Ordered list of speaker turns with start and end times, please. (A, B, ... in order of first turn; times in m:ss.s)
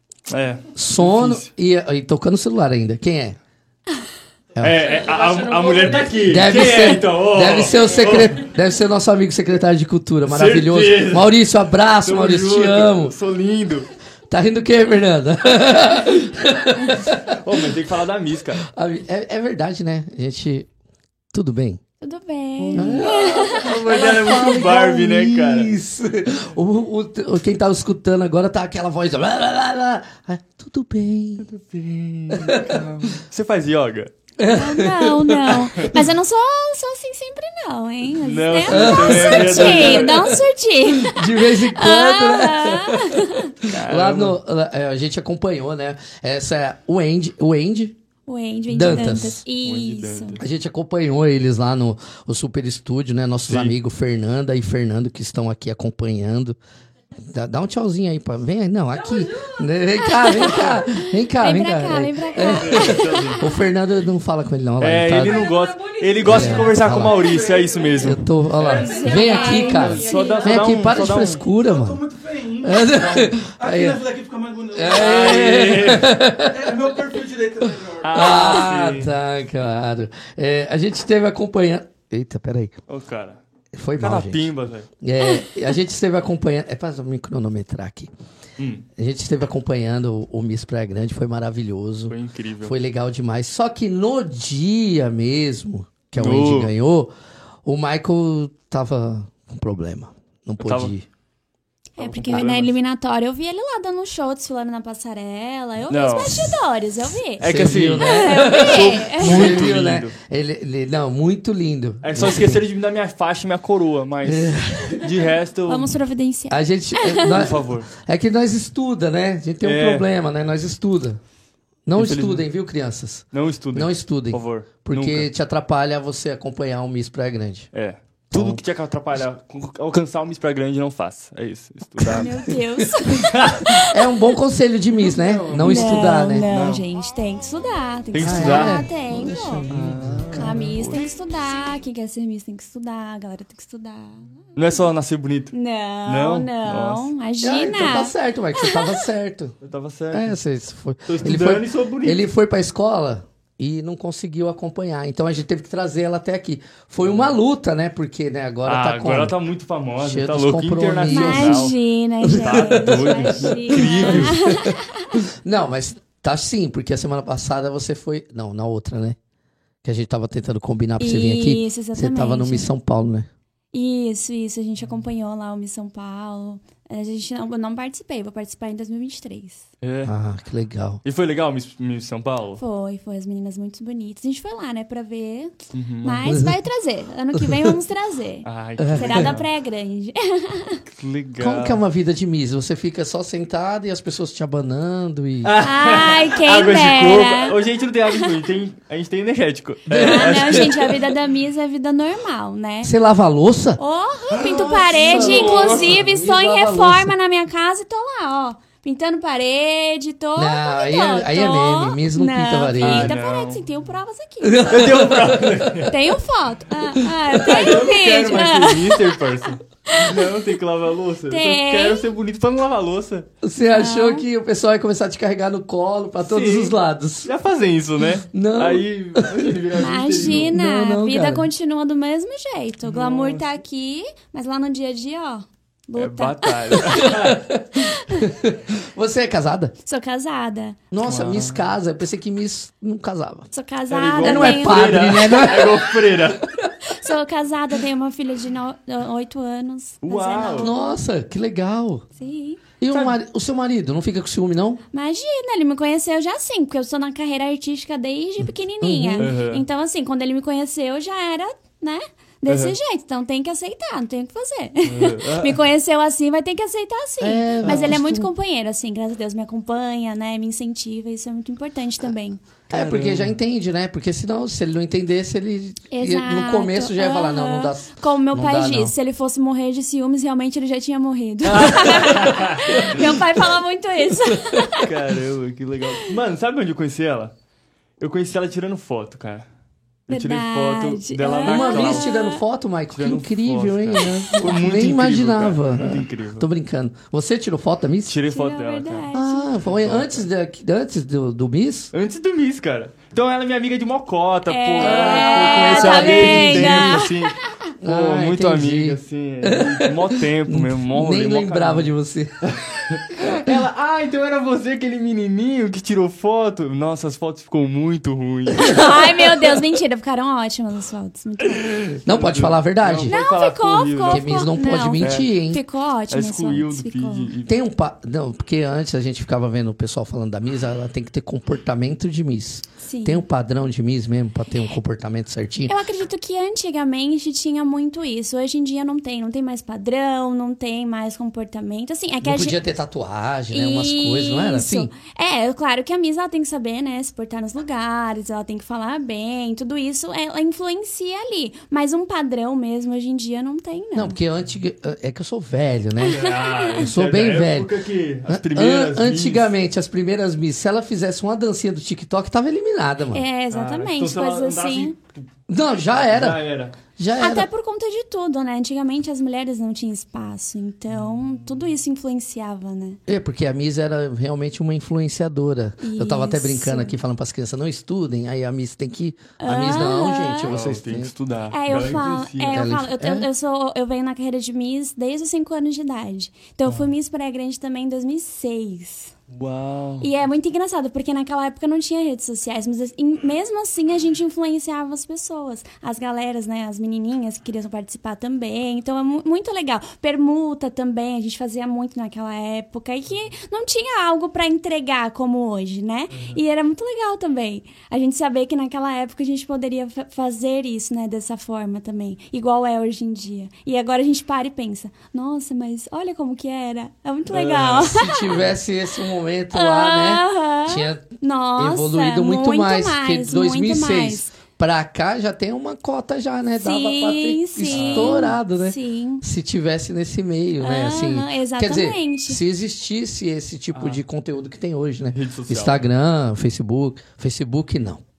0:00.3-0:01.5 A
0:00.7-0:03.4 B
0:04.6-0:06.8 C
0:04.6-0:08.5 A
0:06.2-0:13.1 B
0:10.2-0:11.3 A
0:12.0-0:13.9 A
0:14.3-0:17.6 B
0:17.2-0:18.6 A
0:18.6-0:20.7 B
0:21.3-0:21.8 B
0:22.0-0:23.7 D
0:22.6-0:25.7 A
0:22.7-0:31.5 B
0:31.4-0:34.1 A
0:32.3-0:33.2 B
0:34.4-0:35.8 B
0:34.4-0:43.5 D
0:38.2-0:40.4 A
0:38.6-0:48.0 B
0:43.6-0:44.4 A
0:48.3-0:50.4 D
0:48.7-0:49.4 B
0:49.6-0:50.4 A
0:50.4-0:56.6 B
0:53.5-0:53.7 A
0:57.3-1:05.4 B
0:58.9-0:59.6 C
1:00.1-1:03.6 D
1:00.2-1:00.5 C
1:00.4-1:00.7 A
1:02.4-1:03.4 A
1:04.8-1:11.5 A
1:05.2-1:15.7 C
1:06.2-1:07.4 B
1:08.0-1:14.0 B
1:08.8-1:10.4 D
1:14.7-1:17.0 B
1:14.8-1:16.2 A
1:16.6-1:18.6 C
1:18.0-1:19.1 A
1:18.1-1:22.8 B
1:22.9-1:23.4 A
1:23.7-1:24.5 B
1:24.0-1:24.9 A
1:25.0-1:28.1 B
1:28.6-1:28.8 A
1:29.0-1:37.1 B
1:32.1-1:32.7 A
1:36.2-1:36.7 A
1:37.6-1:41.0 B
1:40.6-1:40.9 A
1:42.0-1:49.5 D
1:42.0-1:42.8 A
1:45.9-1:46.6 A
1:47.4-1:50.1 A
1:47.4-1:52.6 B
1:52.0-1:56.0 A
1:54.2-1:55.1 B
1:55.7-1:57.5 D
1:56.5-2:01.2 B
1:57.2-1:57.9 A
1:59.6-2:00.1 A
2:01.9-2:07.7 B
2:02.0-2:02.4 A
2:03.3-2:05.3 A
2:07.7-2:12.3 A
2:08.3-2:08.6 B
2:12.0-2:13.1 B
2:12.1-2:14.1 D
2:13.1-2:13.7 A
2:13.8-2:16.5 B
2:15.0-2:16.8 A
2:15.6-2:19.7 D
2:18.1-2:18.9 A
2:18.2-2:20.7 B
2:19.7-2:21.0 A
2:20.3-2:24.3 D
2:24.6-2:25.5 A
2:25.5-2:29.0 D
2:26.0-2:27.1 A
2:27.4-2:29.5 B
2:29.6-2:30.4 A
2:30.1-2:39.4 B
2:31.1-2:32.2 A
2:37.0-2:37.3 A
2:38.6-2:44.5 A
2:40.0-2:41.7 B
2:41.1-2:45.1 D
2:42.2-2:49.2 B
2:49.8-2:53.3 B
2:51.0-2:52.7 D
2:53.7-2:59.6 D
2:59.8-3:00.1 A
3:00.0-3:01.0 B
3:01.0-3:02.6 A
3:02.6-3:10.8 D
3:05.7-3:06.3 A
3:06.3-3:06.5 B
3:07.4-3:07.7 B
3:08.4-3:09.5 A
3:08.8-3:09.3 B
3:10.9-3:11.8 A
3:11.4-3:15.6 B
3:15.4-3:21.0 A
3:15.6-3:17.6 D
3:19.9-3:20.9 B
3:19.9-3:22.9 D
3:22.8-3:23.8 B
3:23.8-3:34.8 D
3:24.3-3:26.0 A
3:24.4-3:27.1 B
3:30.4-3:33.2 B
3:32.8-3:33.6 A
3:34.4-3:35.9 B
3:34.7-3:36.0 A
3:35.9-3:39.2 D
3:37.1-3:37.6 B
3:37.3-3:43.3 A
3:39.8-3:40.3 D
3:41.3-3:42.0 D
3:43.4-3:47.3 B
3:43.7-3:44.2 D
3:46.2-3:50.5 A
3:48.3-3:49.6 B
3:49.8-3:57.1 D
3:50.1-3:51.5 B
3:52.8-3:53.6 A
3:55.9-3:57.4 A
3:56.9-3:59.7 B
3:57.8-3:58.3 D
3:59.8-4:00.8 D
4:00.9-4:03.5 B
4:01.0-4:01.6 A
4:03.5-4:05.4 D
4:03.9-4:06.4 A
4:04.2-4:06.7 B
4:06.8-4:10.9 D
4:10.0-4:10.7 A
4:10.6-4:12.0 B
4:12.2-4:12.6 D
4:12.8-4:14.8 B
4:12.9-4:13.2 A
4:14.9-4:32.4 D
4:18.8-4:19.3 B
4:19.2-4:19.6 A
4:22.4-4:22.8 A
4:24.8-4:25.6 A
4:27.2-4:28.3 B
4:32.7-4:38.9 B
4:32.7-4:33.3 A
4:35.9-4:44.9 D
4:41.4-4:43.0 A
4:44.3-4:44.6 B
4:44.8-4:47.3 A
4:48.0-4:49.4 A
4:50.1-4:52.1 A
4:50.1-4:52.4 D
4:51.4-4:58.2 B
4:52.9-4:56.5 A
4:54.0-4:54.3 D
4:58.1-4:59.1 A
4:58.3-4:59.5 D
4:59.1-5:01.9 B
4:59.6-5:00.2 A
5:01.9-5:11.9 A
5:04.5-5:07.6 D
5:04.8-5:07.1 B
5:07.8-5:12.5 B
5:12.4-5:19.5 A
5:18.6-5:21.8 D
5:21.8-5:24.4 A
5:22.0-5:23.2 B
5:23.1-5:27.3 D
5:24.1-5:25.6 B
5:25.0-5:25.3 A
5:26.1-5:27.6 A
5:27.4-5:35.8 B
5:32.8-5:33.2 D
5:35.7-5:42.6 D
5:42.2-5:44.9 B
5:43.5-5:54.2 D
5:53.9-5:56.2 B
5:56.0-5:56.8 D
5:56.1-5:59.5 A
5:56.8-5:57.7 B
5:58.3-6:03.2 B
6:03.1-6:04.9 D
6:03.5-6:05.2 A
6:05.5-6:06.4 B
6:05.9-6:06.8 A
6:07.0-6:07.5 B
6:07.2-6:13.0 D
6:11.0-6:11.4 A
6:13.1-6:21.1 B
6:15.8-6:17.0 D
6:19.4-6:20.6 D
6:20.5-6:22.7 A
6:21.5-6:29.1 D
6:22.5-6:23.3 B
6:29.3-6:30.1 A
6:30.0-6:58.4 D
6:46.1-6:46.4 A
6:57.3-6:58.5 A
6:57.5-7:18.0 B
6:59.5-7:04.3 D
7:06.6-7:09.2 D
7:07.7-7:08.3 A
7:10.6-7:12.4 D
7:13.7-7:14.0 A
7:15.1-7:15.8 A